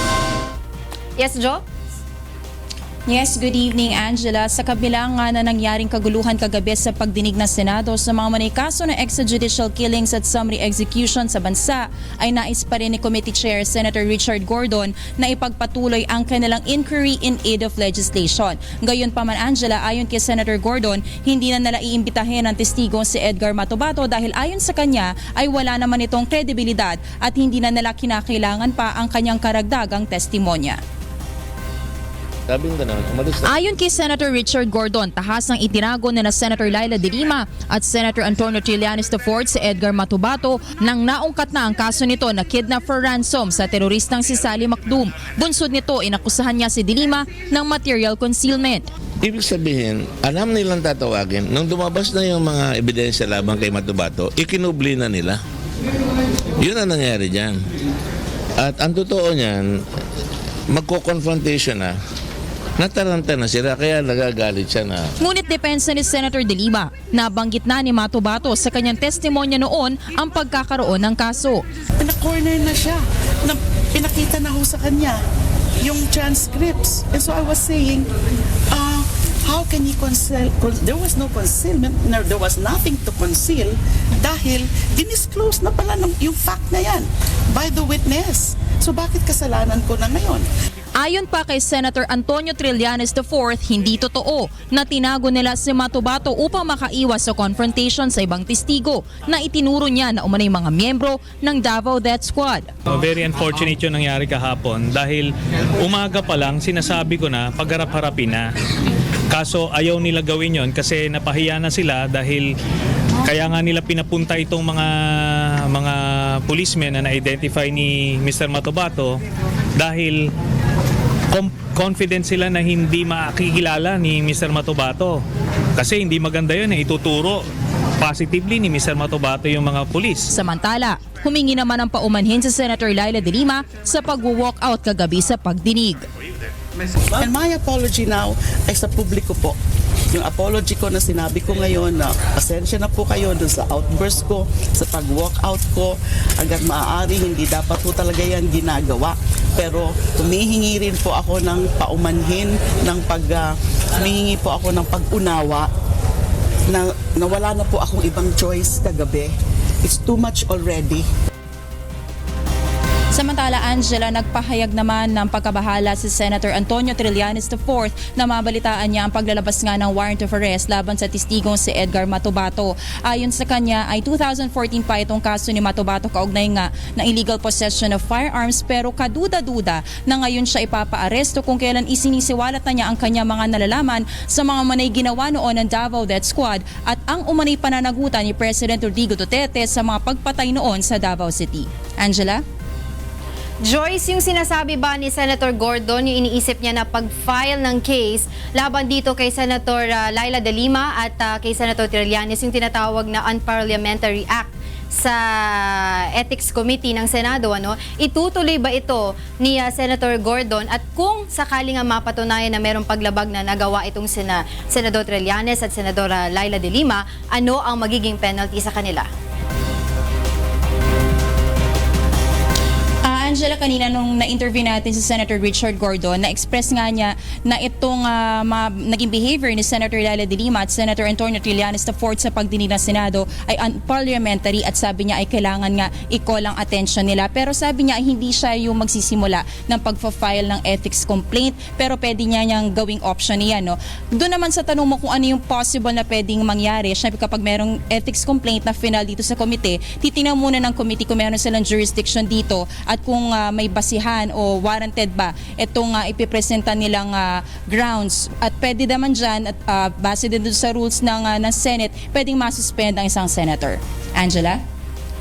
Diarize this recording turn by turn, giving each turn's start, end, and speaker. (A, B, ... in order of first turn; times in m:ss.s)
0:01.2-0:01.6 A
0:03.1-0:30.8 B
0:32.5-0:33.6 C
0:33.4-0:48.8 B
0:49.2-0:55.4 C
0:56.6-0:57.6 C
0:58.6-0:59.7 C
1:00.7-1:02.0 C
1:02.8-1:05.1 C
1:05.2-1:11.6 B
1:12.0-1:15.2 D
1:15.8-1:18.1 D
1:18.7-1:30.5 D
1:30.9-1:42.7 B
1:42.9-1:48.5 E
1:49.3-1:52.5 E
1:53.2-1:59.2 E
1:59.8-2:00.3 E
2:01.3-2:05.2 E
2:05.8-2:07.4 E
2:08.0-2:10.3 E
2:10.3-2:16.0 B
2:17.2-2:19.6 D
2:20.1-2:35.7 D
2:36.7-2:41.1 D
2:43.1-3:12.4 B
3:13.6-3:39.1 A
3:43.1-4:24.6 B